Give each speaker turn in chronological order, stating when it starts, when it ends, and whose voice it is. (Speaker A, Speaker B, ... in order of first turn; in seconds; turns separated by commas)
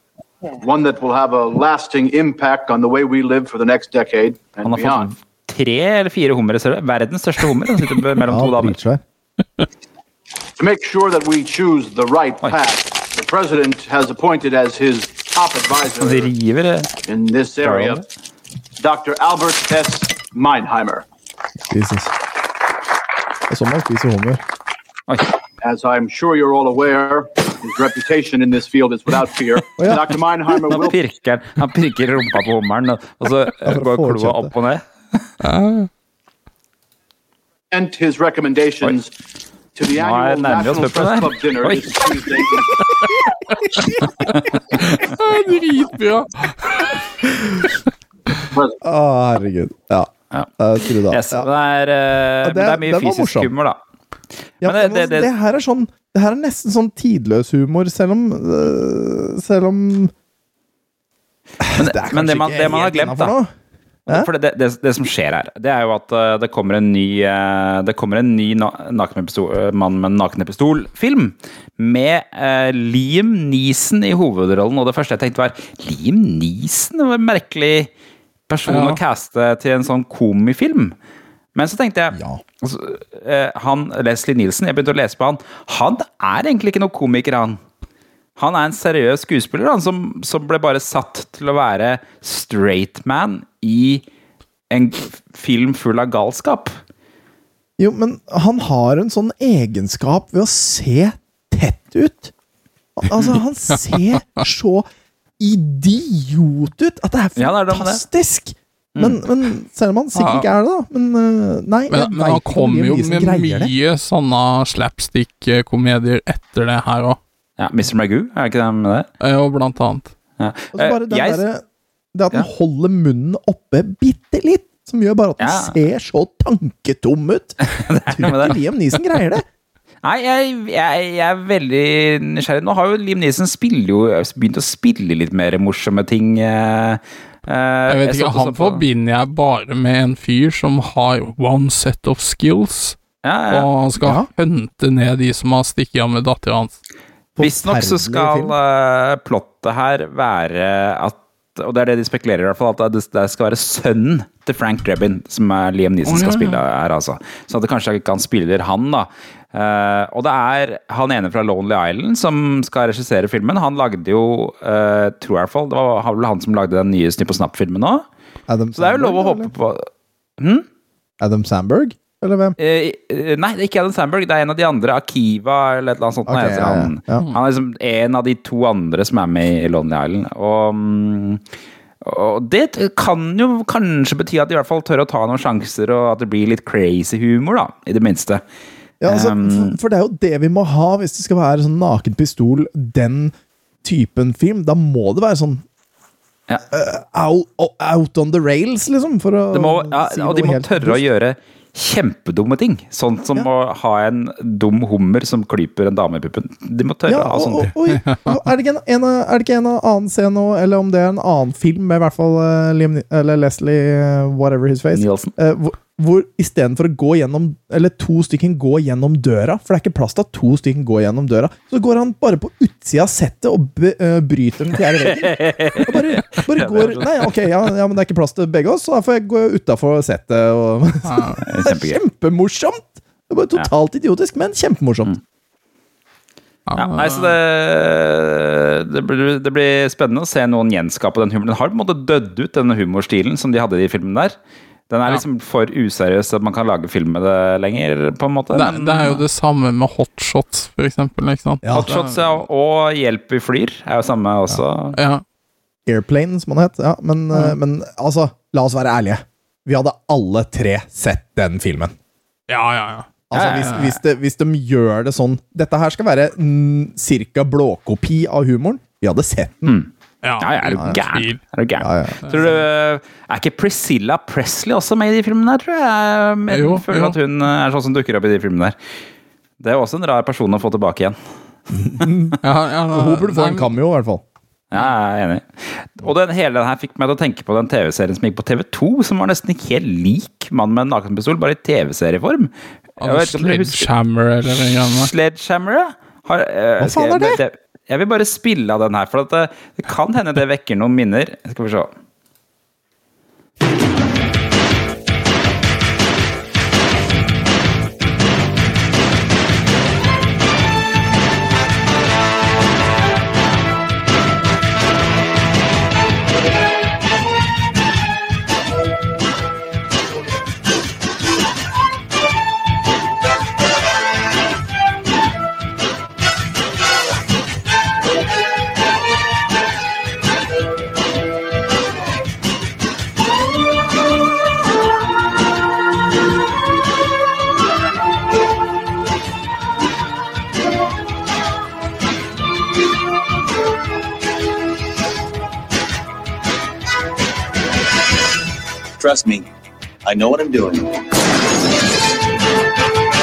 Speaker A: 0.6-5.1, Speaker B: 4.6-8.8, Speaker C: 8.3-9.0, Speaker A: 10.6-16.3, Speaker B: 16.0-16.9, Speaker A: 17.1-18.0, Speaker B: 17.6-18.0, Speaker A: 18.8-21.1, Speaker C: 21.7-22.1, Speaker C: 23.5-24.4, Speaker A: 25.6-31.0, Speaker C: 29.8-30.0, Speaker B: 30.6-35.2, Speaker C: 33.6-34.5, Speaker D: 35.4-35.9, Speaker A: 37.7-39.1, Speaker A: 39.7-42.8, Speaker B: 39.9-42.2, Speaker B: 44.2-44.8, Speaker D: 45.0-46.9, Speaker C: 48.8-51.5, Speaker B: 51.1-53.8, Speaker C: 52.4-53.5, Speaker B: 54.6-55.3, Speaker C: 54.6-60.1, Speaker C: 61.6-63.5, Speaker B: 61.7-63.3, Speaker B: 64.1-77.9, Speaker B: 78.5-80.9, Speaker D: 78.7-79.0, Speaker B: 81.5-87.6, Speaker C: 82.1-82.4, Speaker B: 88.4-94.0, Speaker B: 94.7-96.8, Speaker C: 97.8-102.3, Speaker C: 103.0-104.8, Speaker C: 105.4-113.7, Speaker B: 107.3-108.0, Speaker D: 110.2-110.5, Speaker D: 111.9-117.2, Speaker B: 117.6-119.1, Speaker D: 119.2-120.1, Speaker B: 120.4-121.4, Speaker C: 120.7-121.6, Speaker C: 122.1-129.4, Speaker B: 125.4-125.7, Speaker B: 127.7-128.6, Speaker B: 130.0-138.8, Speaker D: 137.9-146.8, Speaker B: 143.2-143.7, Speaker C: 144.0-144.3, Speaker C: 147.3-148.5, Speaker B: 147.4-168.0, Speaker D: 156.0-156.6, Speaker C: 168.5-169.5, Speaker B: 168.7-170.7, Speaker C: 171.2-172.6, Speaker B: 172.6-181.4, Speaker C: 176.3-177.2, Speaker B: 182.0-188.4, Speaker C: 189.0-193.3, Speaker B: 189.1-189.8, Speaker C: 193.8-195.6, Speaker C: 196.7-201.0, Speaker B: 199.5-207.7, Speaker C: 207.1-235.1, Speaker B: 214.9-215.3, Speaker B: 225.0-227.3, Speaker D: 231.1-231.4, Speaker B: 231.4-232.0, Speaker D: 236.7-237.3, Speaker B: 236.8-244.3, Speaker B: 244.9-249.2, Speaker D: 248.5-252.3, Speaker B: 251.7-254.9, Speaker D: 254.9-255.2, Speaker C: 255.8-261.9, Speaker D: 262.5-263.8, Speaker C: 263.3-269.8, Speaker B: 263.3-263.9, Speaker D: 270.2-271.4, Speaker B: 270.4-278.8, Speaker C: 271.8-272.2, Speaker D: 276.5-277.1, Speaker B: 279.6-281.2, Speaker C: 281.7-282.4, Speaker D: 282.4-283.7, Speaker C: 282.9-284.2, Speaker B: 284.7-293.9, Speaker D: 293.0-295.1, Speaker B: 294.5-301.9, Speaker C: 296.8-297.4, Speaker A: 349.0-349.4, Speaker A: 350.1-350.8